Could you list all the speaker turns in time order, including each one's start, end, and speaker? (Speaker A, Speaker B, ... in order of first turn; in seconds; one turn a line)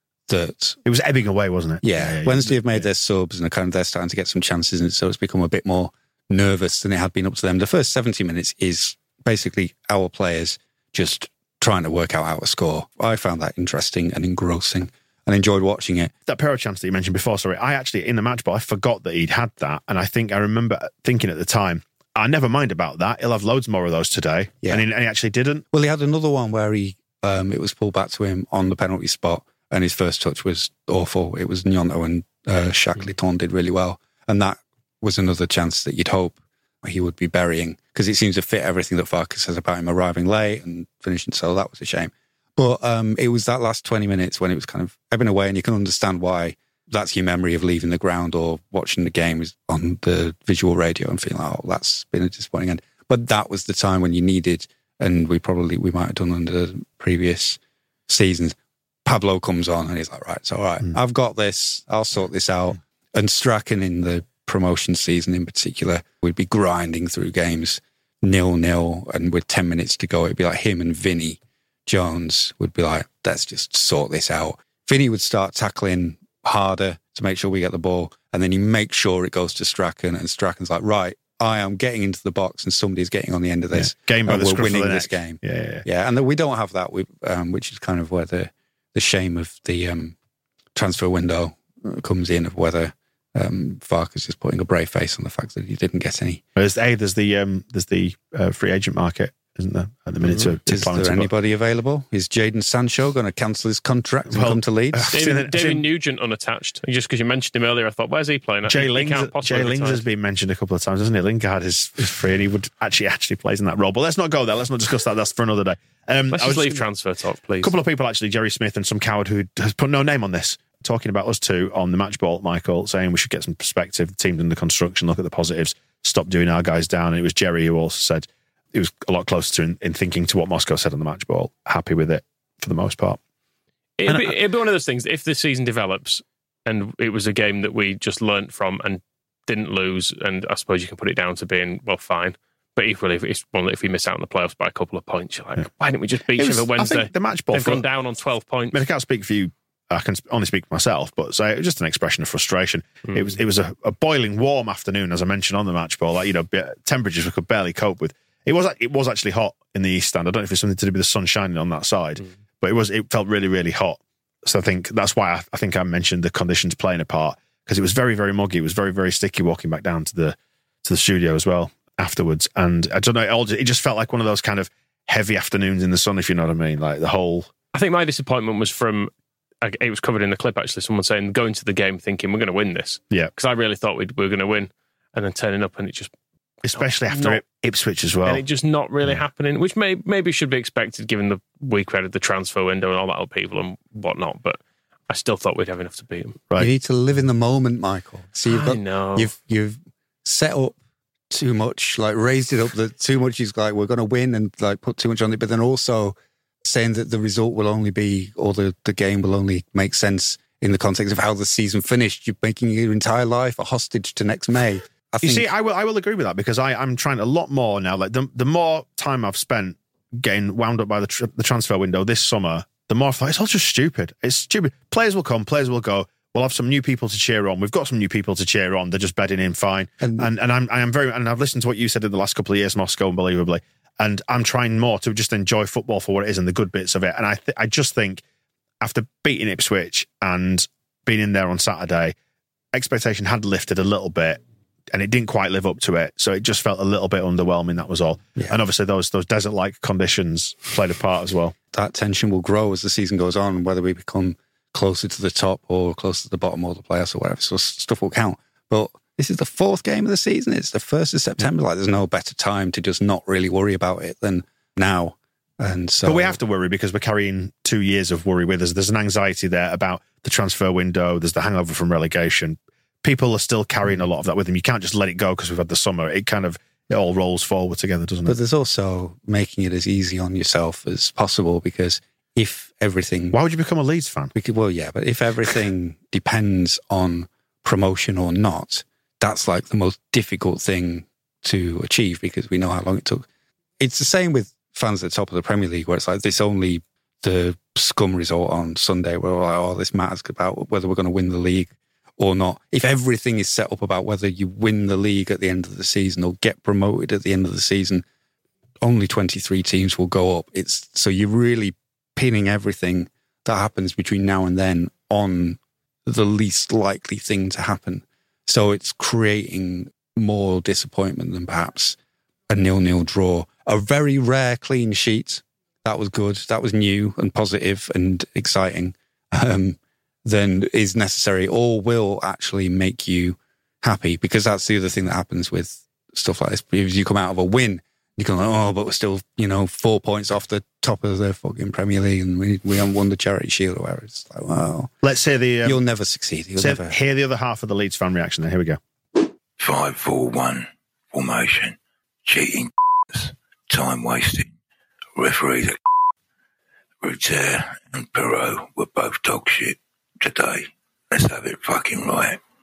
Speaker A: 0.3-0.8
Speaker B: 0.8-2.9
Speaker A: 1.8-16.1
Speaker B: 16.3-25.6
Speaker A: 25.7-90.1
Speaker B: 83.8-85.8
Speaker A: 90.8-96.4
Speaker B: 96.6-101.3
Speaker A: 100.3-105.1
Speaker B: 104.3-105.8
Speaker C: 105.1-110.0
Speaker B: 108.7-116.8
Speaker C: 116.3-117.8
Speaker B: 117.6-133.2
Speaker C: 134.0-148.8
Speaker B: 134.1-134.3
Speaker B: 146.4-147.8
Speaker B: 148.7-177.5
Speaker C: 153.1-153.4
Speaker C: 177.7-179.1
Speaker C: 179.6-186.1
Speaker B: 186.6-188.4
Speaker C: 186.7-187.4
Speaker C: 188.2-196.4
Speaker A: 196.6-200.8
Speaker C: 198.4-199.3
Speaker A: 201.3-215.5
Speaker B: 215.2-238.2
Speaker A: 230.0-230.3
Speaker B: 238.8-242.1
Speaker B: 242.7-244.4
Speaker B: 244.9-251.6
Speaker A: 251.7-266.4
Speaker B: 266.1-278.4
Speaker A: 278.3-283.4
Speaker B: 283.3-284.3
Speaker A: 284.3-293.2
Speaker A: 293.8-308.0
Speaker A: 308.8-321.9
Speaker A: 322.5-344.9
Speaker B: 345.0-345.8
Speaker A: 345.6-346.9
Speaker B: 346.6-348.8
Speaker D: 349.6-354.5
Speaker D: 355.2-355.8
Speaker D: 357.0-362.4